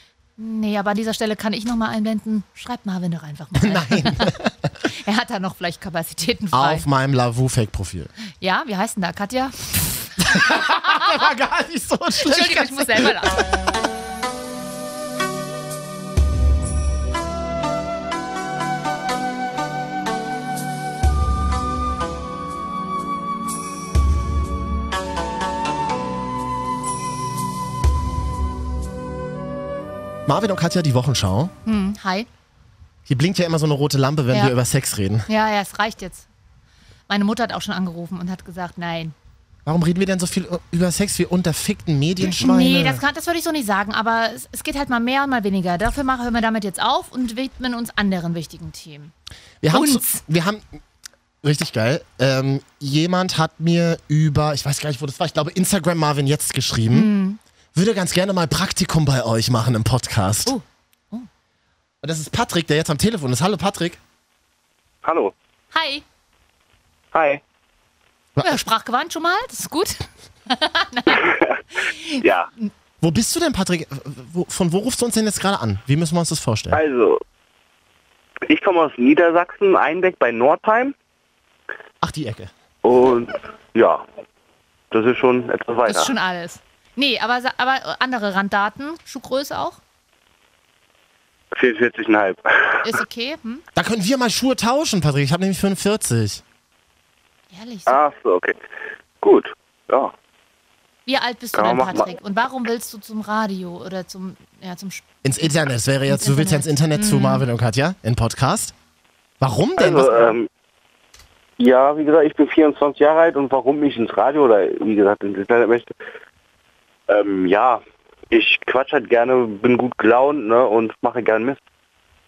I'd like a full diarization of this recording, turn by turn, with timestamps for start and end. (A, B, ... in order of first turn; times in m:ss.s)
0:00.4-0:04.3 A
0:03.6-0:04.7 B
0:04.9-0:06.8 A
0:06.5-0:08.1 B
0:08.4-0:11.3 A
0:10.2-0:13.4 B
0:12.2-0:13.4 A
0:30.3-0:31.5 B
0:31.6-0:32.3 A
0:33.1-0:35.3 B
0:35.3-0:36.2 A
0:37.1-0:39.1 A
0:39.6-0:43.0 B
0:42.2-0:49.1 A
0:49.6-0:50.8 B
0:49.7-0:50.2 A
0:51.4-0:57.1 B
0:56.9-0:57.4 A
0:57.7-1:00.5 B
1:00.4-1:01.3 A
1:02.0-1:04.0 B
1:05.0-1:05.3 C
1:05.7-1:06.0 A
1:07.1-1:07.4 C
1:08.4-1:12.7 A
1:11.2-1:11.6 C
1:12.2-1:12.5 C
1:13.0-1:16.8 B
1:16.7-1:17.2 C
1:18.5-1:20.9 C
1:22.0-1:22.5 B
1:22.8-1:24.0 C
1:24.9-1:26.1 C
1:25.9-1:29.8 A
1:31.5-1:33.0 C
1:32.8-1:33.6 A
1:33.7-1:36.4 B
1:37.5-1:38.0 A
1:37.9-1:38.6 C
1:39.2-1:40.1 C
1:41.0-1:45.2 A
1:41.5-1:42.1 C
1:45.2-1:48.7 B
1:46.1-1:47.4 A
1:49.4-1:50.4 B
1:49.8-1:50.5 C
1:51.6-1:55.9 C
1:57.1-2:01.6 C